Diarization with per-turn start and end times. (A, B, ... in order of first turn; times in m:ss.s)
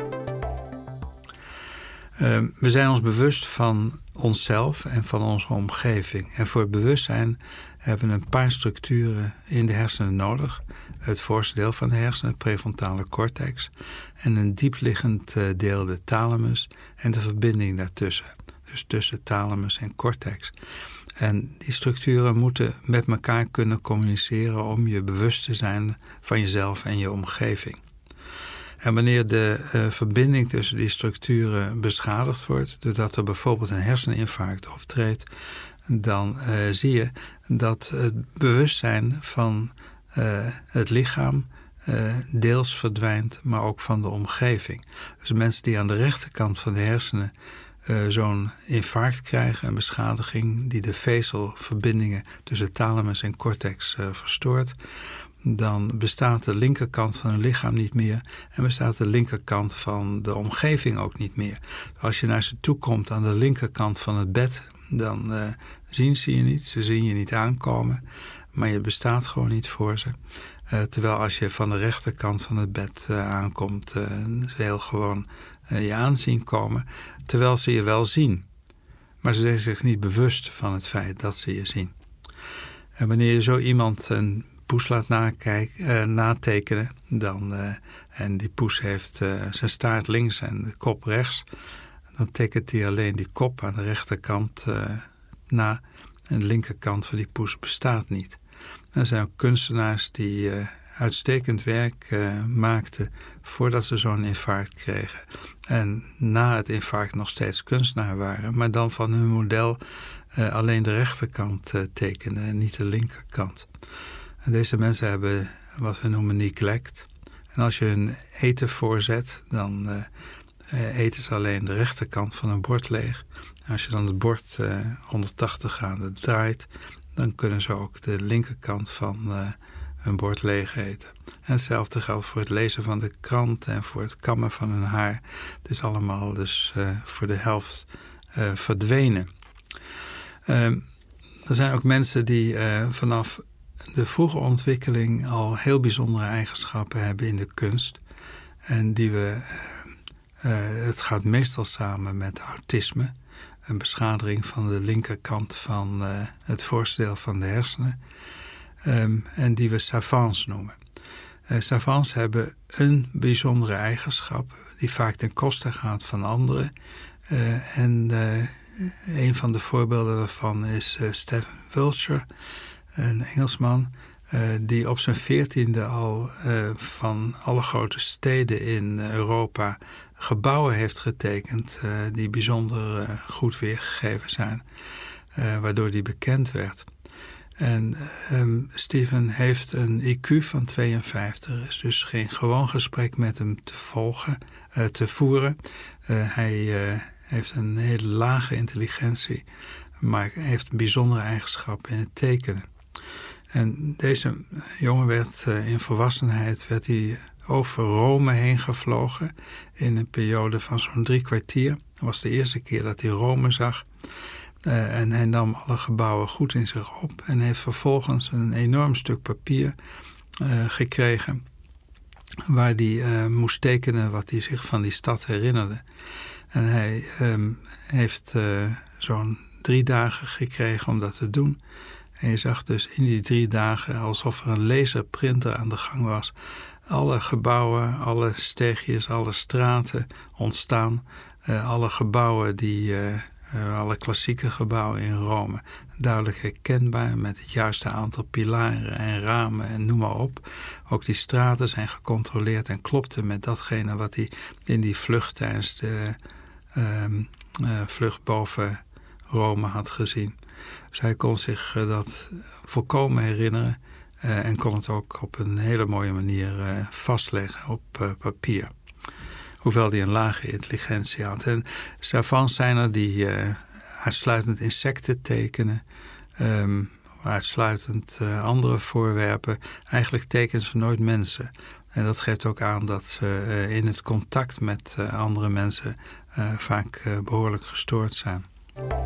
0:02.2-0:20.6 A
0:21.2-0:27.8 A
0:28.8-0:35.3 A
0:35.9-0:47.3 A
0:47.8-0:54.8 A
0:55.4-1:08.0 A
1:08.5-1:10.2 A
1:10.7-1:18.4 A
1:19.2-1:21.9 A
1:23.0-1:31.4 A
1:32.2-1:38.4 A
1:38.9-1:49.8 A
1:50.3-1:53.7 A
1:54.4-2:00.1 A
2:00.7-2:19.3 A
2:20.5-2:20.8 A
2:21.5-2:28.0 A
2:28.7-2:33.1 A
2:33.7-2:38.0 A
2:38.8-2:40.8 A
2:41.5-2:46.7 A
2:47.3-2:52.2 A
2:52.9-3:04.6 A
3:05.3-3:06.9 A
3:07.6-3:19.4 A
3:20.0-3:22.7 A
3:23.5-3:33.8 A
3:34.6-3:39.8 A
3:40.4-3:41.4 A
3:42.5-3:45.8 A
3:46.5-3:51.6 A
3:52.2-3:56.3 A
3:56.9-4:16.2 A
4:16.7-4:20.4 A
4:20.9-4:28.7 A
4:29.6-4:35.8 A
4:36.4-4:48.5 A